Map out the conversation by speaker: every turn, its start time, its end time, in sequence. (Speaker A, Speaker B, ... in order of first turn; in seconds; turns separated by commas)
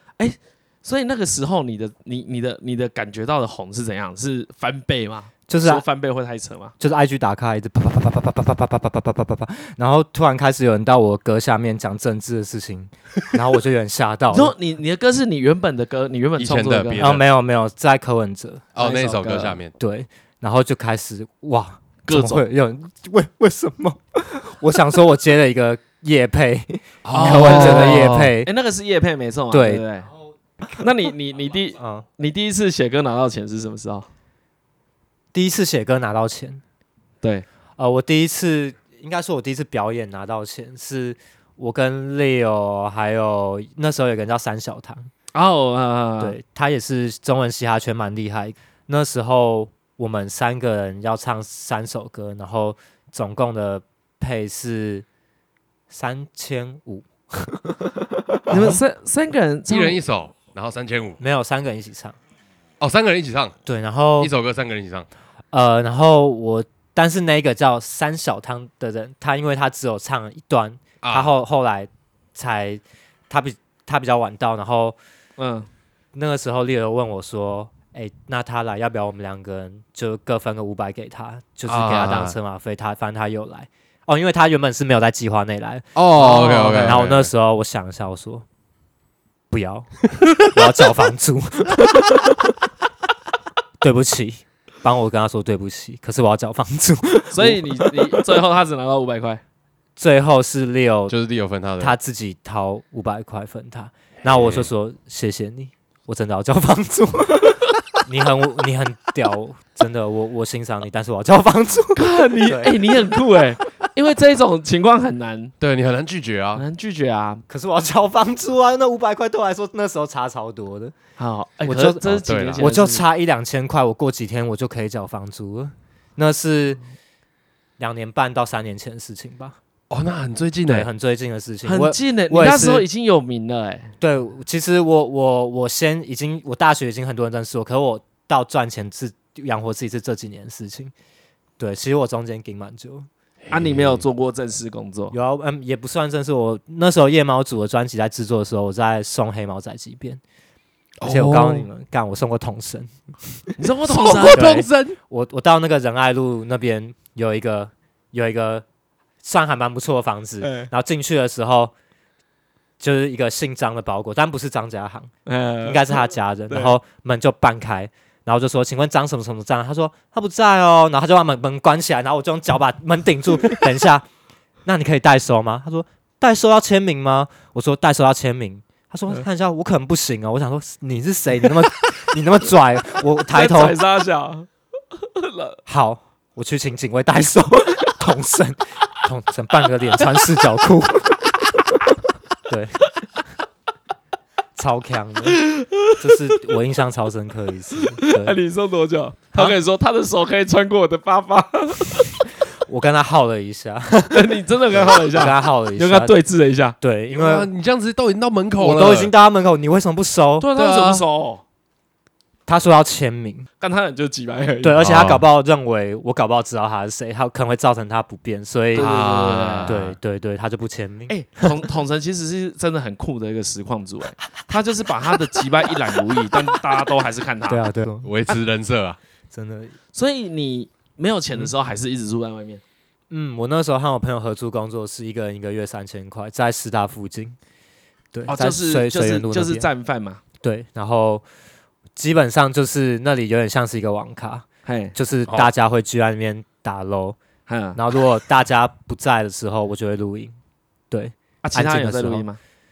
Speaker A: 0.2-6.7, Speaker B: 5.5-5.8, Speaker B: 6.8-14.5, Speaker A: 14.3-17.2, Speaker C: 16.4-17.3, Speaker B: 17.0-18.6, Speaker C: 18.8-19.7, Speaker A: 18.8-19.6, Speaker B: 19.8-28.5, Speaker A: 22.1-22.5, Speaker C: 27.0-28.3, Speaker A: 27.1-30.1, Speaker B: 29.5-29.8, Speaker A: 30.8-34.1, Speaker B: 31.8-32.0, Speaker B: 35.3-36.6, Speaker B: 37.8-45.1, Speaker A: 45.3-46.4, Speaker B: 46.2-55.1, Speaker B: 55.9-58.8, Speaker A: 58.5-60.0, Speaker C: 59.7-61.2, Speaker B: 61.2-62.2, Speaker C: 62.8-63.5, Speaker B: 63.7-64.3, Speaker C: 64.2-65.1, Speaker B: 65.5-75.0, Speaker C: 71.0-71.3, Speaker A: 75.4-75.7, Speaker B: 76.1-88.5, Speaker C: 81.7-82.4, Speaker C: 86.0-87.3, Speaker A: 86.2-87.0, Speaker B: 89.5-92.5, Speaker B: 93.8-98.2, Speaker A: 97.3-99.4, Speaker B: 100.0-101.1, Speaker C: 101.1-102.0, Speaker B: 101.8-113.2, Speaker C: 104.3-104.7, Speaker A: 112.0-115.5, Speaker C: 115.6-116.6, Speaker A: 116.6-117.4, Speaker B: 117.5-121.0, Speaker A: 121.2-123.0, Speaker B: 121.7-126.8, Speaker C: 122.3-122.7, Speaker B: 127.8-129.6, Speaker C: 129.9-130.9, Speaker B: 130.7-132.8, Speaker A: 131.7-133.9, Speaker B: 134.0-140.9, Speaker B: 141.6-143.1, Speaker C: 143.4-144.0, Speaker A: 143.5-145.2, Speaker B: 145.1-150.2, Speaker C: 151.0-151.7, Speaker B: 151.0-153.6, Speaker A: 153.6-154.5, Speaker C: 154.0-155.0, Speaker B: 154.3-158.7, Speaker B: 159.2-161.7, Speaker A: 160.4-160.7, Speaker B: 162.8-165.1, Speaker A: 165.3-166.8, Speaker B: 165.6-174.1, Speaker B: 174.7-183.8, Speaker A: 183.3-184.5, Speaker A: 185.2-185.6, Speaker B: 185.7-191.3, Speaker B: 192.5-192.9, Speaker B: 194.6-195.4, Speaker A: 195.5-195.9, Speaker B: 196.0-198.3, Speaker A: 198.0-202.1, Speaker B: 202.7-206.2, Speaker A: 204.1-206.8, Speaker B: 206.8-207.5, Speaker C: 207.1-209.1, Speaker B: 208.6-210.5, Speaker A: 210.4-211.4, Speaker C: 210.6-211.0, Speaker B: 212.5-213.5, Speaker A: 213.6-214.8, Speaker B: 214.6-218.9, Speaker C: 214.8-215.2, Speaker A: 218.7-219.7, Speaker C: 218.8-220.0, Speaker B: 219.7-221.5, Speaker A: 221.1-227.7, Speaker B: 227.5-228.1, Speaker C: 228.0-229.0, Speaker B: 229.3-229.8, Speaker A: 229.9-232.6, Speaker B: 233.1-237.4, Speaker B: 238.1-239.7, Speaker A: 238.3-240.2, Speaker B: 240.4-241.2, Speaker B: 242.0-247.2, Speaker A: 244.7-245.4, Speaker A: 247.5-247.8, Speaker B: 247.8-250.3, Speaker B: 250.9-252.3, Speaker A: 251.4-252.4